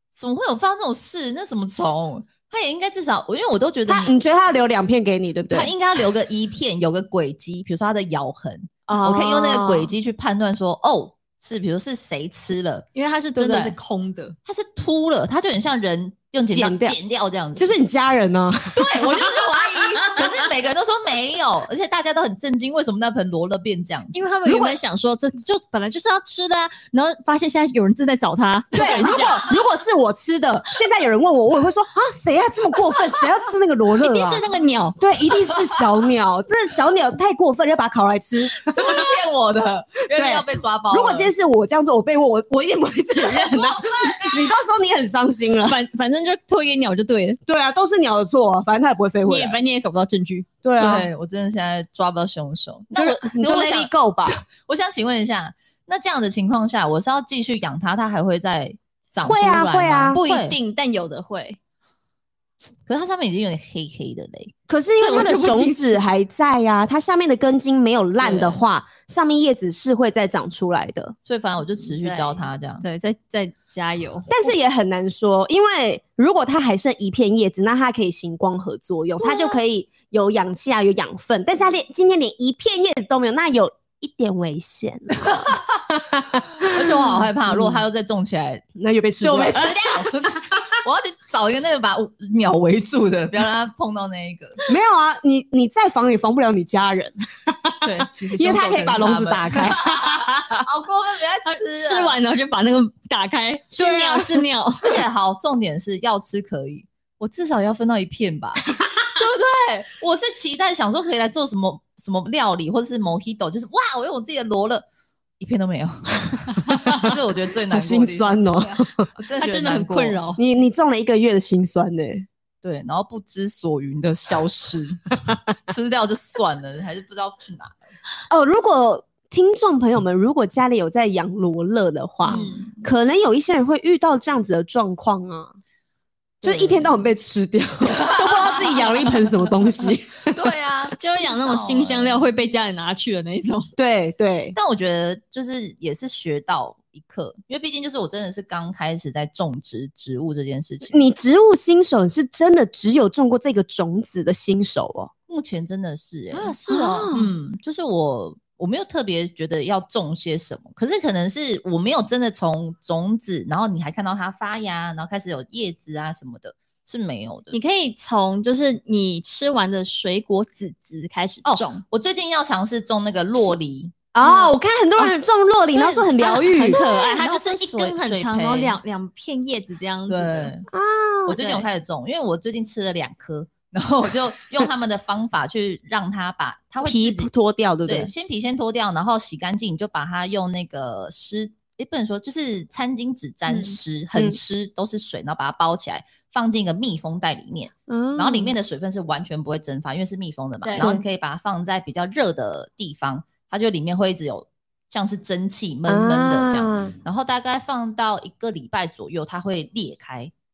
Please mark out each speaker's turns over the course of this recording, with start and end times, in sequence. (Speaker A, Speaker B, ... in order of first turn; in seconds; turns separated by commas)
Speaker A: 0.1-4.1, Speaker B: 3.9-5.7, Speaker A: 5.5-13.8, Speaker B: 8.9-9.9, Speaker C: 12.9-14.3, Speaker A: 14.5-17.8, Speaker B: 16.5-17.0, Speaker B: 17.6-20.3, Speaker A: 18.7-24.1, Speaker C: 24.1-29.4, Speaker B: 24.4-24.8, Speaker A: 28.7-29.2, Speaker B: 28.8-34.4, Speaker C: 34.0-35.0, Speaker B: 35.0-39.1, Speaker A: 35.4-35.9, Speaker A: 38.6-41.3, Speaker B: 40.1-45.8, Speaker A: 43.2-44.5, Speaker C: 45.7-47.4, Speaker B: 47.5-49.6, Speaker C: 49.3-50.5, Speaker B: 50.6-51.1, Speaker A: 50.8-60.5, Speaker B: 53.0-54.4, Speaker B: 59.2-60.2, Speaker C: 60.1-61.6, Speaker A: 62.9-64.5, Speaker B: 64.7-71.1, Speaker C: 65.0-66.0, Speaker A: 68.2-68.6, Speaker A: 71.3-72.8, Speaker C: 71.8-74.5, Speaker B: 74.3-87.8, Speaker A: 85.2-85.9, Speaker A: 86.6-88.7, Speaker B: 88.8-90.8, Speaker A: 89.2-94.6, Speaker B: 94.7-100.6, Speaker A: 97.8-102.2, Speaker C: 101.5-105.0, Speaker B: 103.8-104.4, Speaker A: 104.8-114.8, Speaker A: 115.4-120.2, Speaker B: 116.7-117.1, Speaker B: 117.7-119.1, Speaker C: 119.4-120.4, Speaker B: 120.4-122.3, Speaker A: 122.6-127.8, Speaker B: 128.3-135.5, Speaker A: 132.2-132.8, Speaker C: 132.3-132.7, Speaker A: 136.4-136.9, Speaker B: 136.4-140.4, Speaker A: 137.9-139.3, Speaker A: 140.3-142.2, Speaker C: 141.0-143.7, Speaker B: 143.8-144.6, Speaker A: 144.6-151.0, Speaker B: 150.9-155.1, Speaker A: 155.3-167.6, Speaker C: 156.3-156.6, Speaker B: 156.7-157.3, Speaker C: 167.5-171.8, Speaker A: 171.4-173.9, Speaker B: 174.1-176.8, Speaker C: 174.2-174.5, Speaker A: 175.7-178.8, Speaker C: 176.2-180.5, Speaker A: 180.1-180.7, Speaker B: 180.7-181.7, Speaker A: 181.3-187.3, Speaker B: 186.8-188.1, Speaker A: 187.9-210.3, Speaker C: 193.5-193.8, Speaker B: 197.9-198.5, Speaker B: 200.8-201.0, Speaker B: 205.9-206.9